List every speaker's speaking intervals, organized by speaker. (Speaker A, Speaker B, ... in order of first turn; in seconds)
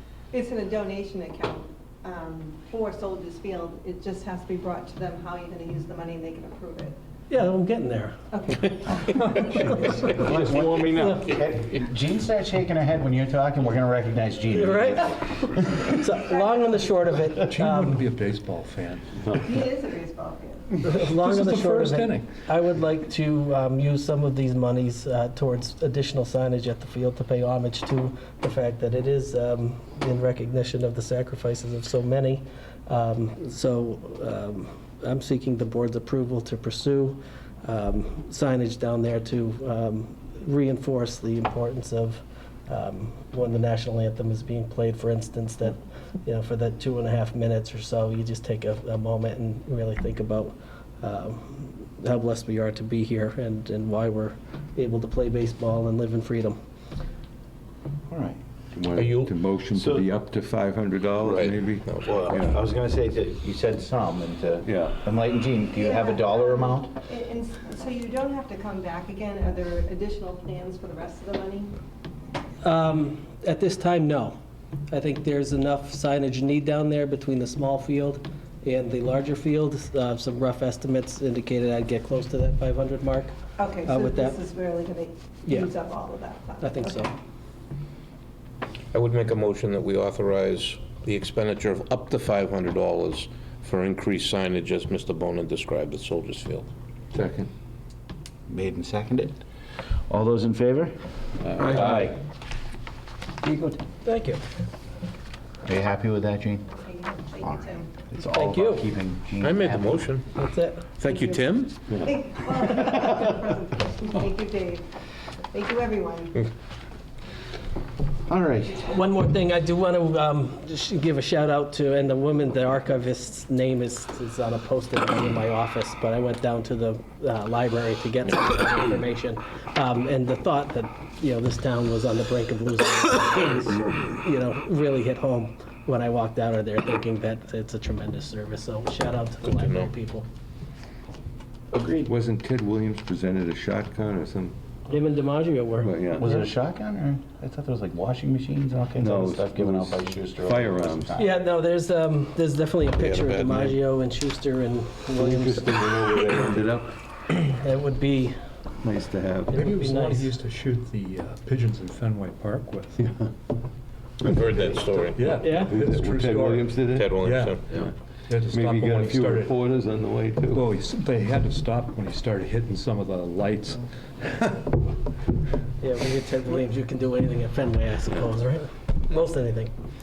Speaker A: 0.3-7.0, 8.3-10.3, 16.3-16.9, 19.3-20.7, 65.7-71.7, 83.6-87.1, 106.8-107.9, 111.1-114.8, 115.5-116.5
Speaker B: 7.3-8.2, 9.3-10.2, 10.9-11.3, 14.5-18.0, 20.8-56.6, 72.6-74.4, 74.9-83.3, 83.8-84.4, 85.5-85.7, 86.6-87.1, 104.0-104.4, 108.3-108.9, 110.3-110.9, 118.8-140.3, 144.9-146.5, 151.2-156.4, 157.4-158.4, 159.5-160.3, 165.4-165.7, 175.8-179.7
Speaker C: 10.1-16.0, 58.1-58.4, 59.8-60.1, 62.0-66.9, 98.5-99.4, 100.1-102.2, 103.4-103.8, 105.7-106.8, 107.4-110.0, 118.3-118.8, 141.7-142.1, 146.1-151.4
Speaker D: 10.5-11.2, 59.0-59.4, 61.2-62.4, 88.9-96.7, 109.4-110.3, 111.0-111.8, 139.4-139.9, 153.0-153.8, 164.2-165.4, 166.9-167.7
Speaker E: 17.4-19.2, 21.0-22.3, 159.5-163.1, 165.2-169.6, 170.5-174.5
Speaker F: 58.7-62.5, 64.7-65.0, 97.2-97.5, 142.1-144.6, 145.8-146.3, 149.0-151.1, 155.2-156.9, 158.8-159.6, 165.7-167.2, 168.5-170.7